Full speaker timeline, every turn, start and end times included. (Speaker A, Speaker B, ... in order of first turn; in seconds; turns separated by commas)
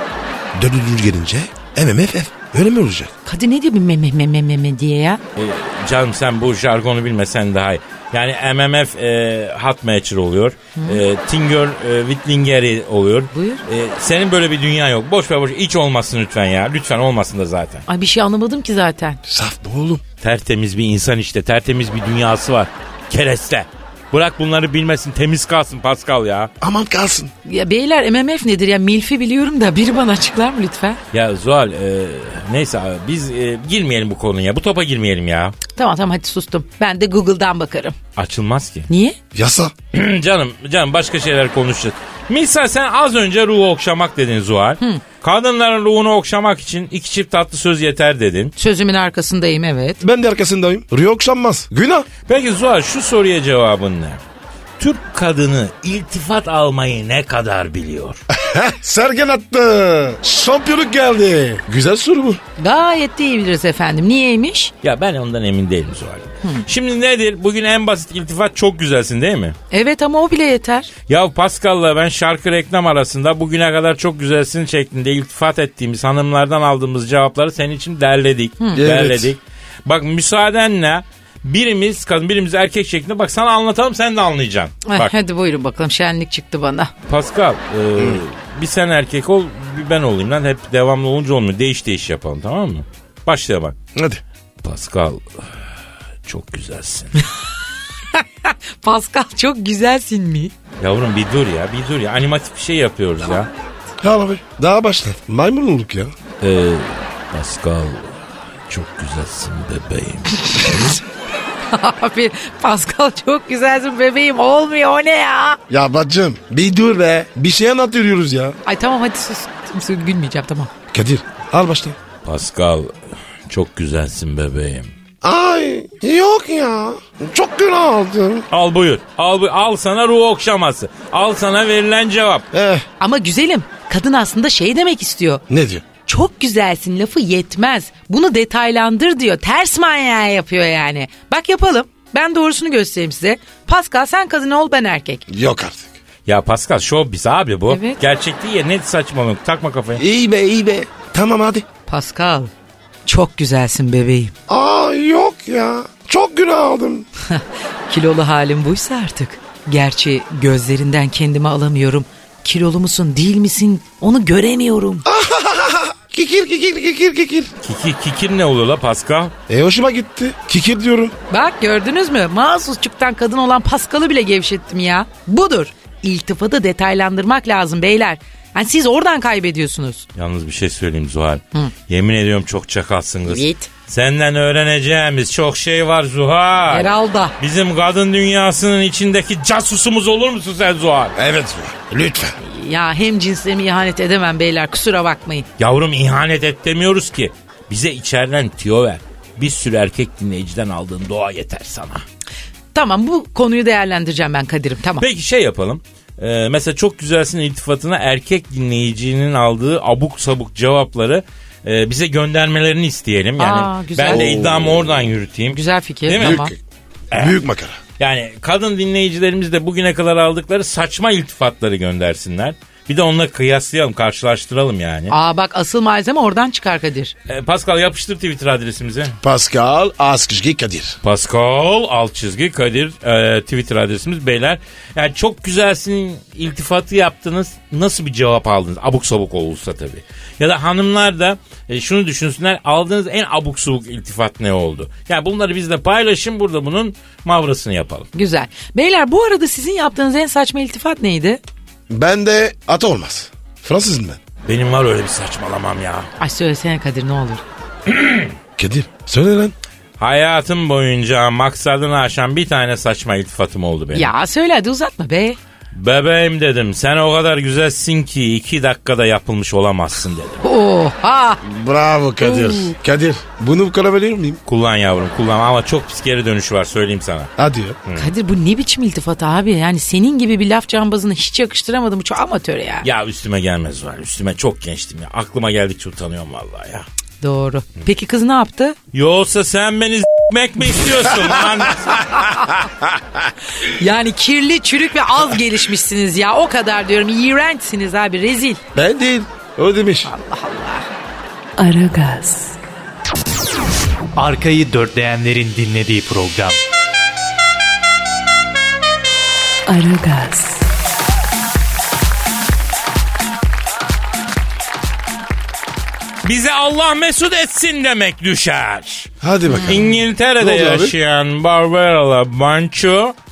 Speaker A: 0.6-3.1, Speaker B: 3.3-5.2, Speaker C: 5.4-17.8, Speaker B: 10.8-11.0, Speaker B: 13.3-13.6, Speaker B: 17.9-19.2, Speaker A: 19.3-20.0, Speaker C: 20.2-26.5, Speaker A: 26.6-27.3, Speaker B: 27.4-31.0, Speaker C: 31.1-35.6, Speaker B: 35.8-38.0, Speaker C: 38.2-38.9, Speaker B: 38.9-39.2, Speaker A: 39.3-39.7, Speaker C: 39.9-48.5, Speaker B: 48.6-50.0, Speaker A: 50.0-52.1, Speaker C: 52.3-54.2, Speaker C: 54.8-58.2, Speaker A: 58.3-62.4, Speaker B: 62.6-64.7, Speaker C: 64.8-69.6, Speaker B: 69.7-70.9, Speaker C: 71.1-85.1, Speaker B: 78.6-78.8, Speaker A: 78.8-79.3, Speaker B: 84.8-86.9, Speaker C: 87.1-93.8, Speaker A: 88.0-88.2, Speaker A: 93.9-94.2, Speaker C: 94.6-95.2, Speaker C: 96.3-97.2, Speaker B: 98.2-100.5, Speaker C: 100.8-103.5, Speaker A: 104.0-106.1, Speaker C: 106.4-108.2, Speaker C: 108.7-111.0, Speaker B: 111.7-115.6, Speaker A: 115.7-118.6, Speaker B: 118.7-120.7, Speaker A: 120.9-122.0, Speaker C: 122.2-122.9, Speaker C: 123.5-124.9, Speaker A: 125.2-128.5, Speaker C: 128.5-132.5, Speaker A: 132.5-132.9, Speaker B: 133.0-135.4, Speaker A: 135.5-135.8, Speaker B: 136.1-145.2, Speaker A: 145.3-145.9, Speaker C: 146.3-150.0, Speaker B: 147.7-148.0, Speaker A: 150.0-151.7, Speaker B: 151.9-152.5, Speaker B: 153.1-154.3, Speaker A: 154.5-157.1, Speaker B: 157.3-165.1, Speaker A: 165.1-167.5, Speaker C: 167.6-169.3, Speaker A: 169.5-171.2, Speaker B: 171.3-180.1, Speaker C: 180.2-191.2, Speaker B: 183.3-183.7, Speaker B: 186.7-187.3, Speaker A: 191.2-192.4, Speaker B: 192.4-195.5, Speaker C: 195.6-202.0, Speaker B: 202.7-205.1, Speaker C: 205.0-216.5, Speaker B: 213.4-214.4, Speaker A: 214.0-215.1, Speaker B: 215.5-216.5, Speaker A: 216.1-216.6, Speaker C: 217.1-217.4, Speaker A: 217.1-217.8, Speaker C: 218.0-225.1, Speaker B: 225.1-227.1, Speaker C: 227.3-229.2, Speaker A: 229.2-231.0, Speaker C: 231.0-248.1, Speaker B: 248.1-251.4, Speaker A: 251.9-254.2, Speaker C: 254.5-256.1, Speaker B: 256.2-257.4, Speaker C: 257.9-258.3, Speaker A: 258.6-259.6, Speaker C: 260.0-264.1, Speaker B: 263.9-265.4, Speaker C: 265.7-270.4, Speaker B: 270.4-271.4, Speaker A: 271.4-274.4, Speaker B: 272.2-272.8, Speaker C: 274.5-277.3, Speaker A: 277.4-277.8, Speaker C: 277.9-278.1, Speaker B: 278.0-282.9, Speaker C: 282.8-286.9, Speaker B: 287.2-288.8, Speaker C: 288.9-292.4, Speaker B: 292.1-292.5, Speaker B: 293.6-298.6, Speaker A: 298.7-300.1, Speaker B: 300.1-300.9, Speaker D: 301.6-302.6, Speaker E: 304.2-306.6, Speaker D: 309.7-310.7, Speaker C: 316.2-319.1, Speaker A: 319.2-320.9, Speaker B: 319.5-319.9, Speaker C: 319.7-323.1